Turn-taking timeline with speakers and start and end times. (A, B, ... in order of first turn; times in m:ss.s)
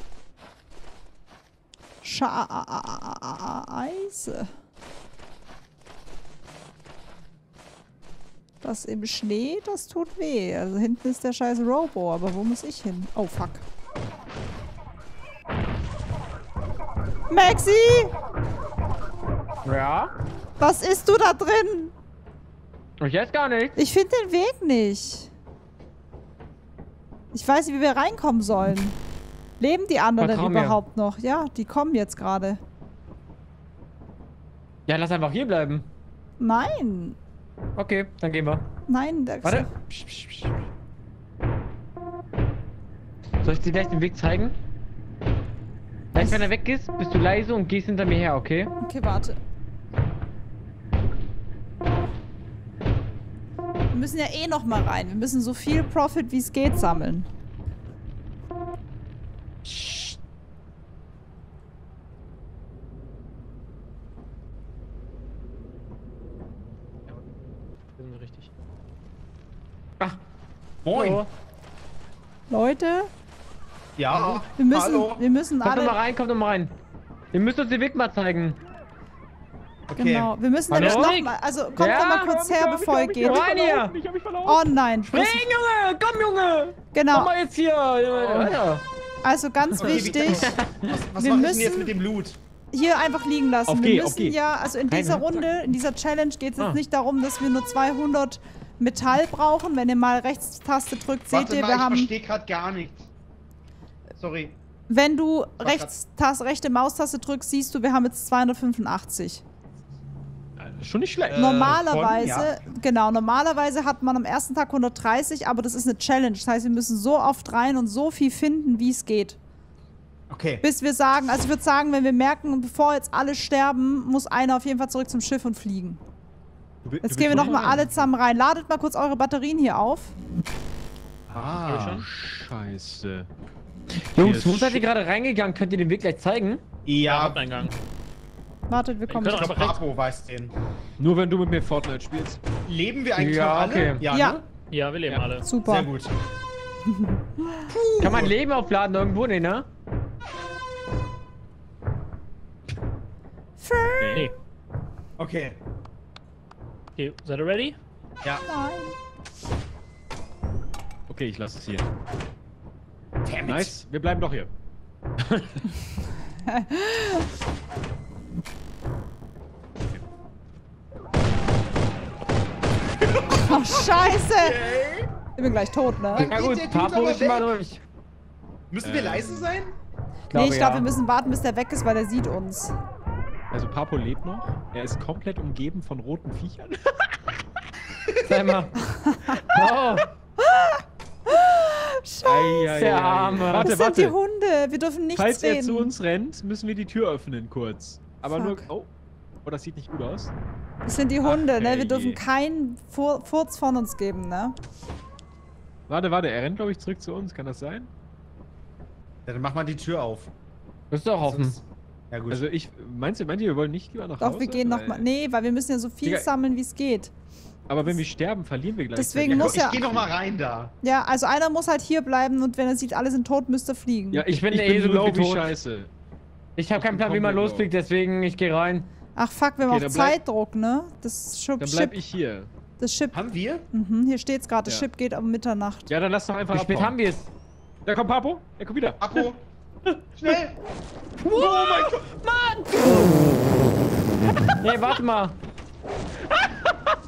0:02.0-0:04.5 A
0:08.6-0:13.6 A
0:17.3-0:18.1 A
0:19.6-0:20.1 B
0:20.6-0:21.9 A
0:23.0-0:23.8 B
0:23.8-0:25.3 A
0:27.3-0:29.0 A
0:29.6-0:32.6 A
0:30.2-0:30.8 B
0:34.9-0:35.9 B
0:36.4-0:37.2 A
0:37.8-0:38.7 B
0:38.9-0:39.7 A
0:39.4-0:40.5 B
0:43.4-0:44.6 B
0:46.1-0:48.8 B
0:46.2-0:46.4 A
0:48.8-0:49.4 A
0:53.9-0:57.3 A
0:59.7-1:00.2 B
1:08.0-1:08.5 C
1:10.8-1:11.2 D
1:10.9-1:11.3 C
1:12.5-1:13.1 A
1:14.0-1:15.2 D
1:14.6-1:16.0 A
1:15.6-1:16.7 B
1:17.3-1:18.6 B
1:19.9-1:20.3 D
1:20.0-1:23.6 A
1:20.7-1:21.2 B
1:20.7-1:21.3 C
1:21.8-1:24.6 E
1:21.8-1:22.3 B
1:23.2-1:24.0 B
1:24.4-1:25.5 A
1:25.1-1:28.8 B
1:26.9-1:27.3 A
1:28.2-1:28.6 E
1:29.2-1:30.6 A
1:29.8-1:32.4 D
1:30.3-1:30.7 B
1:31.2-1:31.9 A
1:32.7-1:42.1 A
1:33.7-1:34.4 E
1:34.9-1:35.4 B
1:41.3-1:43.1 D
1:44.2-1:44.6 D
1:44.9-1:49.4 A
1:45.6-1:45.9 D
1:50.6-1:51.6 E
1:51.3-1:52.6 D
1:51.3-1:59.4 A
2:00.3-2:00.6 D
2:00.6-2:06.0 A
2:06.8-2:08.1 E
2:07.0-2:10.2 A
2:11.3-2:12.0 D
2:11.6-2:12.1 C
2:11.8-2:13.3 E
2:14.1-2:16.6 B
2:14.2-2:14.8 E
2:16.9-2:17.4 D
2:17.0-2:17.8 C
2:18.7-2:19.6 A
2:19.1-2:19.8 C
2:19.3-2:20.5 D
2:21.0-2:22.4 E
2:22.7-2:24.4 D
2:23.2-2:24.0 B
2:24.1-2:24.4 A
2:24.7-2:25.4 C
2:25.4-2:25.9 A
2:25.6-2:26.2 D
2:26.9-2:27.6 A
2:27.7-2:28.4 D
2:28.0-2:29.7 B
2:33.6-2:34.3 A
2:34.0-2:34.3 E
2:35.2-2:35.6 D
2:37.0-2:37.8 C
2:38.5-2:39.0 A
2:41.1-2:41.8 E
2:43.2-2:43.8 D
2:43.4-2:44.5 E
2:46.4-2:47.3 A
2:53.0-2:55.1 D
2:53.4-2:54.6 A
2:55.4-2:56.3 A
2:56.1-2:57.5 D
2:56.2-2:57.8 B
2:58.7-2:59.7 D
2:58.8-2:59.5 E
3:00.3-3:00.9 B
3:00.3-3:02.8 A
3:03.5-3:07.4 E
3:08.2-3:08.8 B
3:08.3-3:08.6 D
3:08.8-3:09.4 A
3:09.3-3:10.1 B
3:10.4-3:12.8 A
3:12.2-3:14.2 E
3:12.7-3:13.7 B
3:13.5-3:15.9 A
3:15.2-3:18.9 E
3:18.3-3:18.7 A
3:19.4-3:20.3 E
3:20.9-3:24.6 A
3:21.2-3:22.2 E
3:25.9-3:27.9 E
3:29.3-3:30.3 D
3:30.9-3:31.6 B
3:31.2-3:32.4 D
3:32.3-3:35.1 E
3:34.2-3:37.1 A
3:37.7-3:40.1 E
3:39.0-3:39.9 A
3:39.3-3:40.7 D
3:40.8-3:44.2 A
3:44.1-3:45.9 E
3:44.3-3:45.5 B
3:46.6-3:48.9 B
3:46.7-3:47.7 E
3:49.2-3:52.0 A
3:49.6-3:50.2 E
3:51.6-3:52.5 E
3:52.8-3:53.2 A
3:53.1-3:53.6 D
3:53.7-3:55.9 A
3:55.9-3:57.0 E
3:56.5-3:57.3 B
3:57.8-3:59.3 E
3:59.0-3:59.4 D
4:00.2-4:00.6 D
4:01.2-4:03.4 B
4:01.3-4:02.0 E
4:04.6-4:05.4 B
4:06.3-4:06.9 E